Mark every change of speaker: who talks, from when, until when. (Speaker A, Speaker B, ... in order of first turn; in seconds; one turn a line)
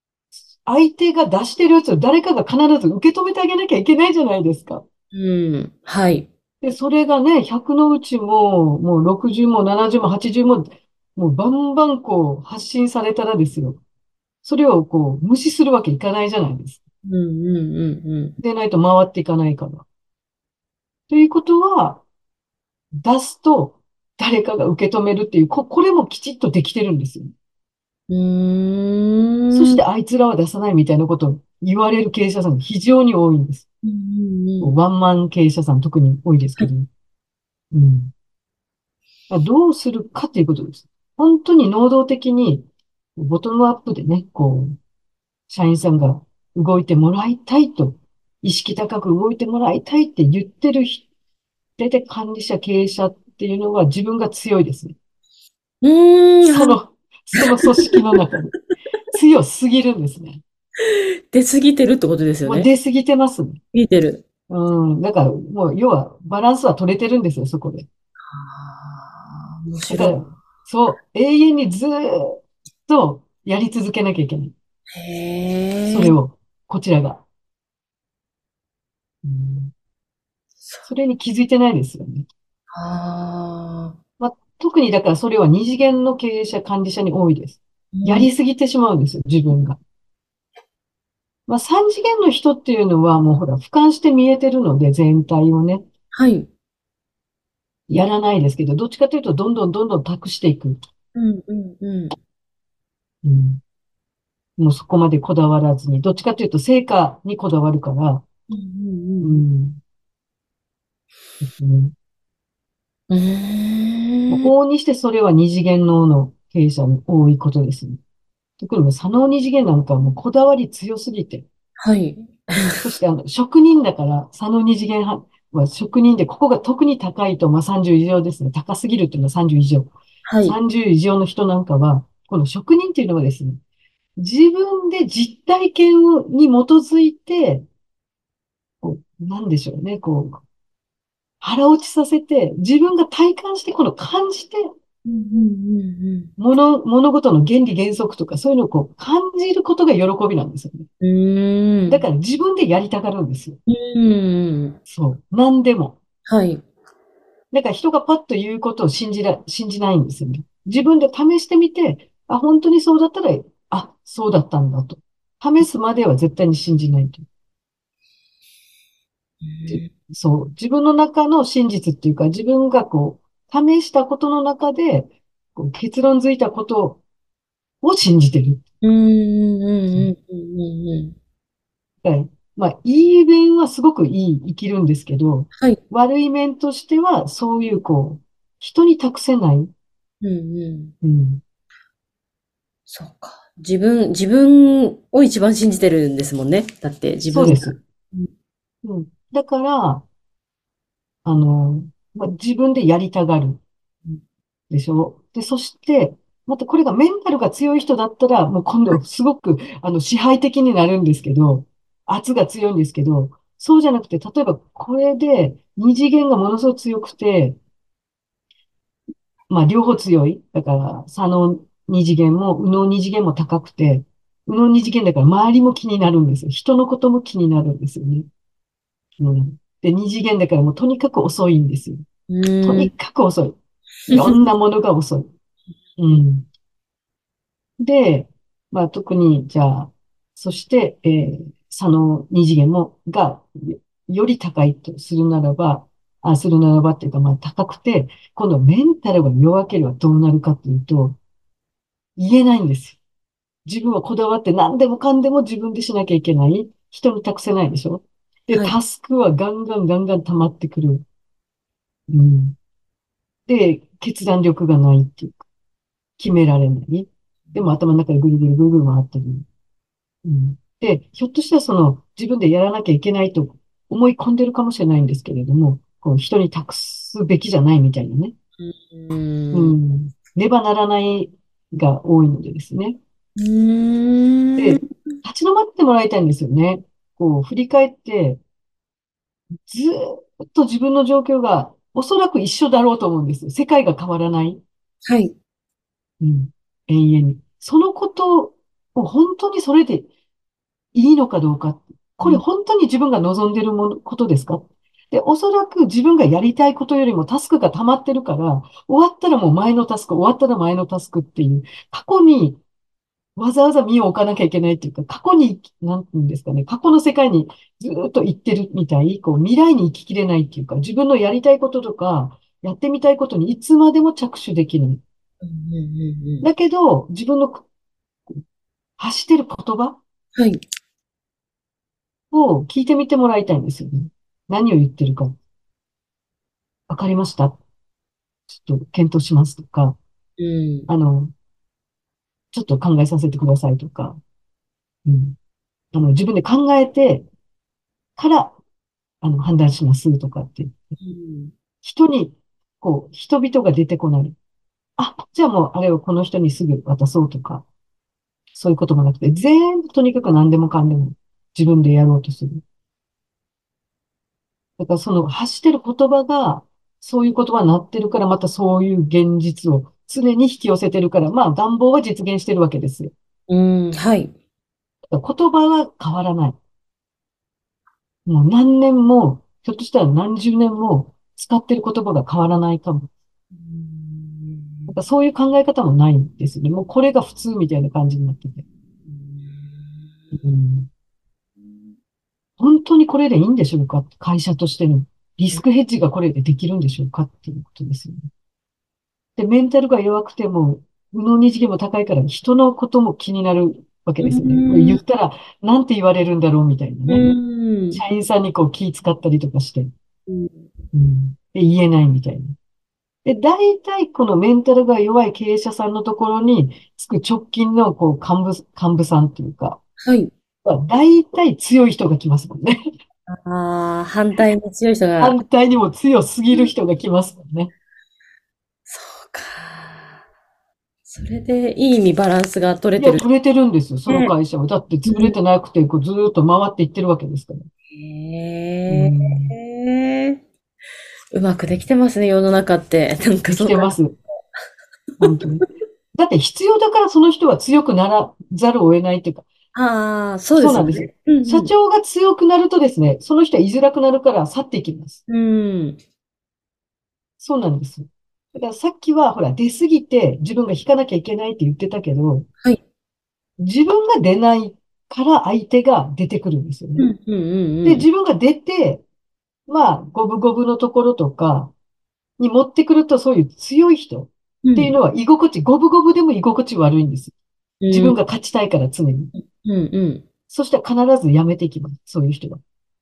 Speaker A: 0.3-4.8
Speaker B: 5.1-6.3
Speaker A: 6.6-13.8
Speaker A: 14.4-16.8
Speaker B: 17.0-18.4
Speaker A: 18.4-19.9
Speaker A: 21.1-22.0
Speaker A: 23.0-27.3
Speaker B: 28.1-29.8
Speaker A: 29.5-33.6
Speaker B: 33.8-34.7
Speaker A: 34.6-36.9
Speaker A: 37.7-38.1
Speaker A: 39.3-44.7
Speaker A: 45.5-51.0
Speaker A: 51.8-54.9
Speaker B: 55.8-56.8
Speaker A: 56.5-58.5
Speaker A: 59.1-60.4
Speaker B: 60.8-62.7
Speaker A: 62.4-63.6
Speaker B: 63.7-64.2
Speaker A: 64.5-67.9
Speaker B: 68.3-70.3
Speaker A: 69.9-74.5
Speaker B: 74.9-76.1
Speaker A: 75.9-77.2
Speaker A: 79.2-79.7
Speaker A: 80.8-82.3
Speaker B: 82.7-84.0
Speaker A: 84.2-89.8
Speaker B: 87.9-88.3
Speaker A: 91.5-95.8
Speaker B: 96.1-96.5
Speaker A: 97.9-100.8
Speaker B: 101.1-102.1
Speaker A: 103.2-103.6
Speaker A: 104.6-108.2
Speaker B: 108.5-109.4
Speaker A: 109.2-109.8
Speaker A: 111.4-111.9
Speaker B: 113.1-114.5
Speaker A: 114.3-118.0
Speaker A: 118.6-121.5
Speaker B: 121.8-122.9
Speaker A: 122.5-133.6
Speaker B: 130.2-130.6
Speaker A: 134.2-137.6
Speaker A: 138.8-140.4
Speaker A: 141.4-144.7
Speaker B: 145.0-146.3
Speaker A: 146.4-150.9
Speaker B: 151.0-152.1
Speaker A: 151.9-153.6
Speaker B: 153.7-154.8
Speaker A: 154.9-156.0
Speaker B: 156.3-156.6
Speaker A: 157.5-167.2
Speaker B: 169.4-169.9
Speaker A: 169.7-177.0
Speaker A: 177.8-178.6
Speaker B: 178.8-181.1
Speaker A: 182.0-189.7
Speaker B: 190.2-190.9
Speaker A: 191.0-191.4
Speaker B: 192.9-198.3
Speaker A: 197.3-197.8
Speaker A: 198.8-200.0
Speaker A: 201.2-203.6
Speaker A: 204.7-217.6
Speaker A: 219.5-228.3
Speaker A: 229.2-232.0
Speaker B: 232.3-232.9
Speaker A: 232.6-233.6
Speaker B: 234.1-234.4
Speaker A: 234.1-235.3
Speaker A: 236.0-236.5
Speaker A: 237.8-251.2
Speaker A: 252.2-253.0
Speaker A: 253.7-261.0
Speaker A: 262.1-262.6
Speaker A: 263.5-265.4
Speaker A: 266.2-269.4
Speaker A: 270.2-278.3
Speaker B: 278.6-279.8
Speaker A: 279.5-283.0
Speaker B: 283.4-284.9
Speaker A: 284.6-288.4
Speaker A: 289.6-294.6
Speaker B: 295.0-295.3
Speaker A: 296.2-300.1
Speaker A: 300.9-312.6
Speaker A: 313.4-325.0
Speaker B: 325.4-326.5
Speaker A: 326.4-327.6
Speaker A: 329.0-330.0
Speaker B: 330.4-330.6
Speaker A: 332.3-335.3
Speaker A: 336.9-337.6
Speaker A: 338.5-340.0
Speaker B: 340.4-340.9
Speaker A: 340.9-341.3
Speaker A: 342.5-344.2
Speaker A: 345.0-345.4
Speaker A: 345.9-347.3
Speaker A: 348.2-348.6
Speaker A: 349.2-350.9
Speaker B: 351.0-351.5
Speaker A: 351.8-354.3
Speaker A: 355.0-357.6
Speaker A: 358.5-362.6
Speaker A: 364.8-373.1
Speaker B: 373.5-374.3
Speaker A: 375.1-376.6
Speaker A: 378.2-383.1
Speaker B: 383.6-384.9
Speaker A: 384.9-388.6
Speaker B: 389.1-390.3
Speaker A: 390.3-390.9
Speaker A: 392.6-398.2
Speaker A: 399.4-407.3
Speaker B: 404.2-405.0
Speaker B: 407.1-408.0
Speaker A: 407.9-409.9
Speaker B: 410.3-410.7
Speaker A: 410.9-412.6
Speaker A: 413.2-419.8
Speaker B: 420.0-420.3
Speaker A: 420.6-422.8
Speaker B: 423.3-425.4
Speaker A: 425.2-427.7
Speaker B: 428.9-430.2
Speaker B: 431.1-433.2
Speaker A: 432.9-437.6
Speaker B: 434.1-434.3
Speaker B: 435.1-435.4
Speaker B: 437.9-440.4
Speaker A: 438.9-439.5
Speaker B: 441.3-443.9
Speaker A: 443.5-444.2
Speaker A: 445.2-449.4
Speaker B: 449.7-451.7
Speaker A: 450.6-455.2
Speaker B: 455.3-456.0
Speaker A: 457.4-462.5
Speaker A: 463.6-467.1
Speaker B: 467.0-468.1
Speaker A: 467.8-469.0
Speaker A: 469.7-471.7
Speaker A: 472.4-477.3
Speaker B: 474.6-474.9
Speaker B: 477.8-478.2
Speaker A: 477.9-479.3
Speaker B: 479.3-480.2
Speaker A: 480.5-482.6